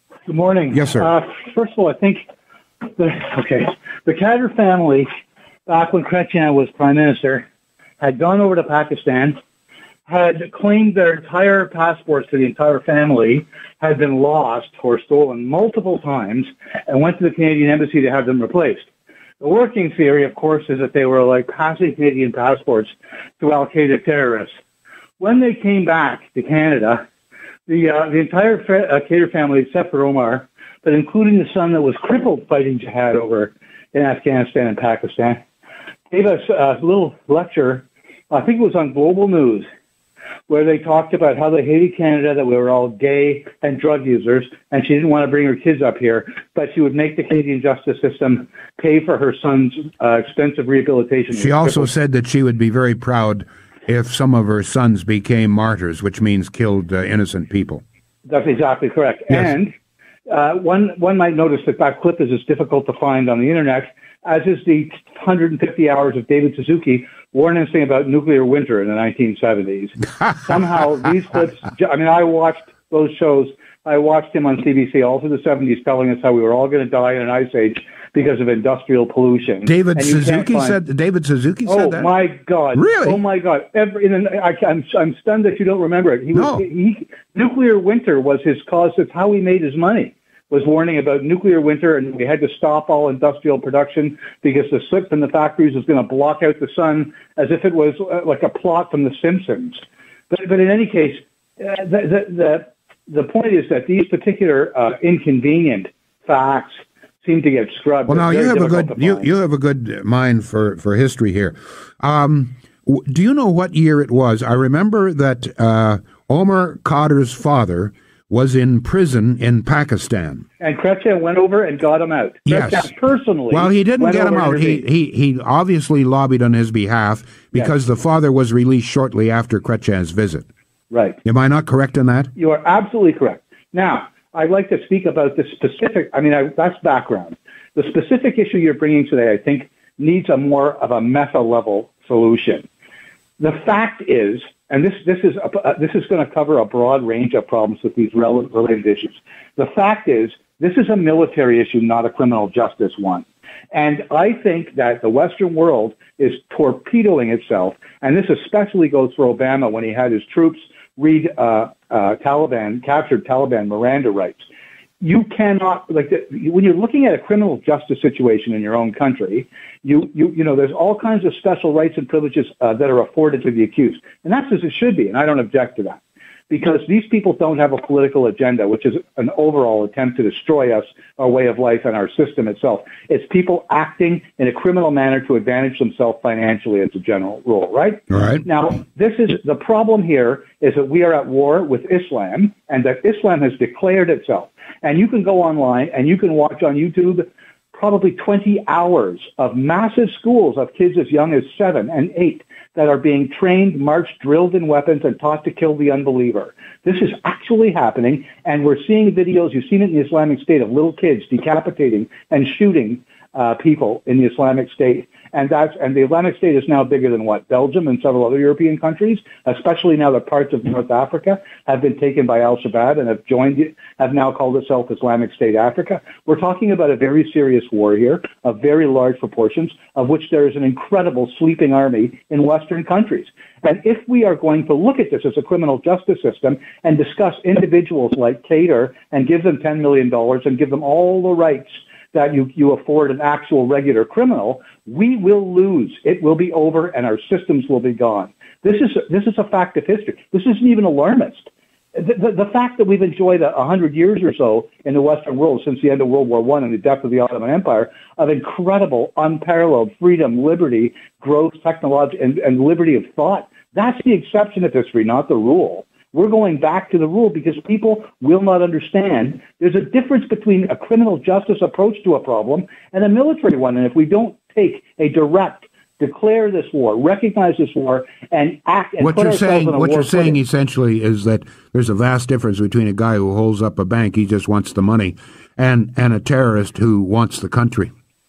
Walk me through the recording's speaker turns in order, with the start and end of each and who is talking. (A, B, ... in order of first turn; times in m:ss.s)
0:00.3-0:02.2 A
0:00.7-0:01.1 B
0:03.0-0:05.1 A
0:05.7-0:07.5 A
0:08.0-0:09.4 A
0:10.1-0:18.9 A
0:19.4-0:24.5 A
0:25.2-0:27.0 A
0:27.7-0:35.4 A
0:36.1-0:39.6 A
0:40.5-0:51.9 A
0:51.3-0:57.8 B
0:58.2-0:59.7 A
1:00.3-1:20.8 A
1:19.6-1:22.1 B
1:21.6-1:49.3 A
1:22.7-1:23.2 B
1:26.3-1:26.6 B
1:48.1-2:00.4 B
2:00.6-2:04.9 A
2:02.5-2:02.9 B
2:03.5-2:10.5 B
2:10.9-2:11.2 A
2:11.2-2:12.3 B
2:12.4-2:22.7 A
2:23.4-2:44.4 A
2:45.0-4:40.4 A
3:08.1-3:08.4 B
4:39.0-4:47.9 B